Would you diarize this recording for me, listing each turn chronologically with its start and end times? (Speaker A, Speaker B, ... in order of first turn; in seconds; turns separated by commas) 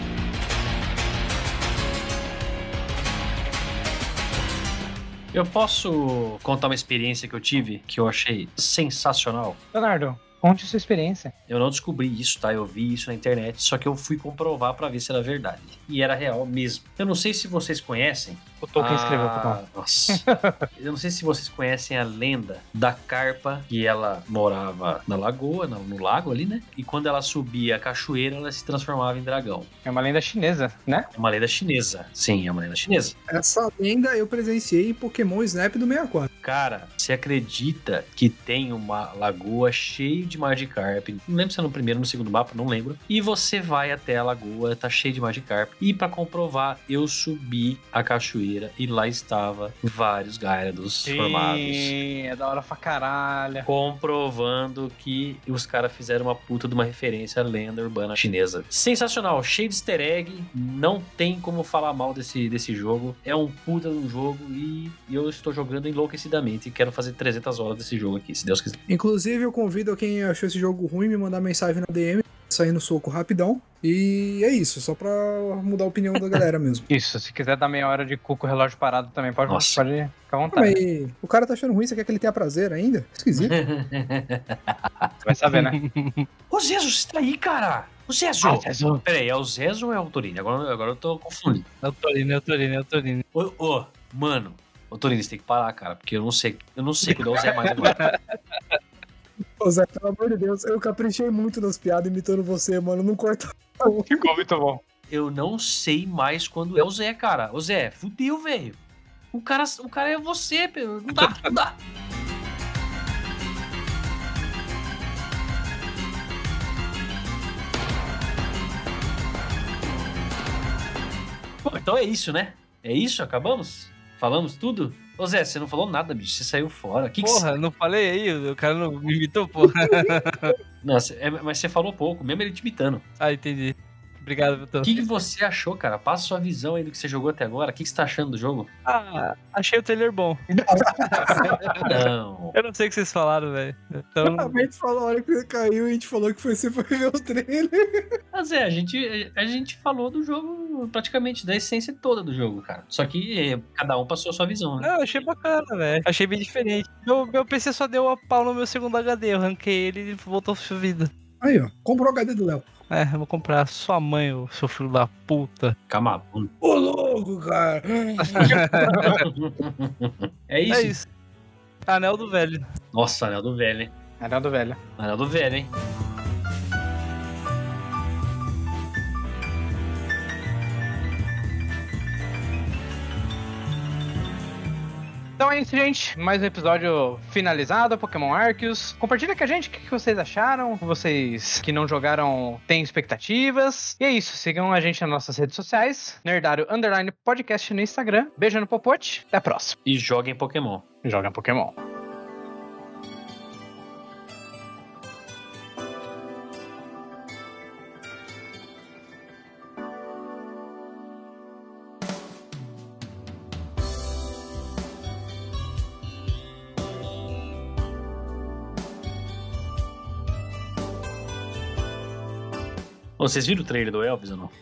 Speaker A: 5.3-9.6, Speaker B: 9.7-11.3, Speaker A: 11.5-29.7, Speaker B: 18.6-19.6, Speaker B: 20.1-20.6, Speaker B: 29.9-31.1, Speaker A: 31.1-33.2, Speaker C: 33.3-36.3, Speaker A: 36.4-52.0, Speaker B: 51.1-53.7, Speaker A: 53.6-68.8, Speaker C: 68.9-76.9, Speaker B: 76.9-80.8, Speaker A: 79.5-79.8, Speaker C: 80.5-83.5, Speaker A: 83.3-85.2, Speaker B: 85.3-85.8, Speaker D: 85.3-86.3, Speaker A: 86.5-91.7, Speaker B: 88.4-89.0, Speaker D: 91.8-93.2, Speaker A: 93.3-98.0, Speaker D: 97.8-98.2, Speaker C: 99.6-104.3, Speaker B: 104.1-104.8, Speaker A: 105.1-108.8, Speaker A: 109.3-111.8, Speaker A: 121.7-127.5, Speaker D: 127.2-130.6, Speaker C: 129.6-130.5, Speaker A: 130.8-133.1, Speaker D: 133.2-134.9, Speaker A: 134.8-138.7, Speaker D: 138.9-140.4, Speaker C: 140.7-142.0, Speaker D: 141.1-141.9, Speaker A: 141.8-142.6, Speaker D: 142.5-144.6, Speaker C: 144.2-148.0, Speaker A: 148.3-154.9, Speaker D: 154.8-161.1, Speaker C: 161.4-162.7, Speaker D: 162.9-165.8, Speaker A: 165.9-166.5, Speaker C: 166.6-169.2, Speaker D: 168.2-169.2, Speaker A: 169.2-171.0, Speaker D: 170.7-171.1, Speaker D: 171.9-172.7, Speaker A: 172.9-173.9, Speaker B: 174.2-174.8, Speaker A: 175.0-175.7, Speaker B: 185.4-199.8, Speaker A: 199.9-200.8, Speaker B: 201.0-201.8, Speaker A: 223.2-224.5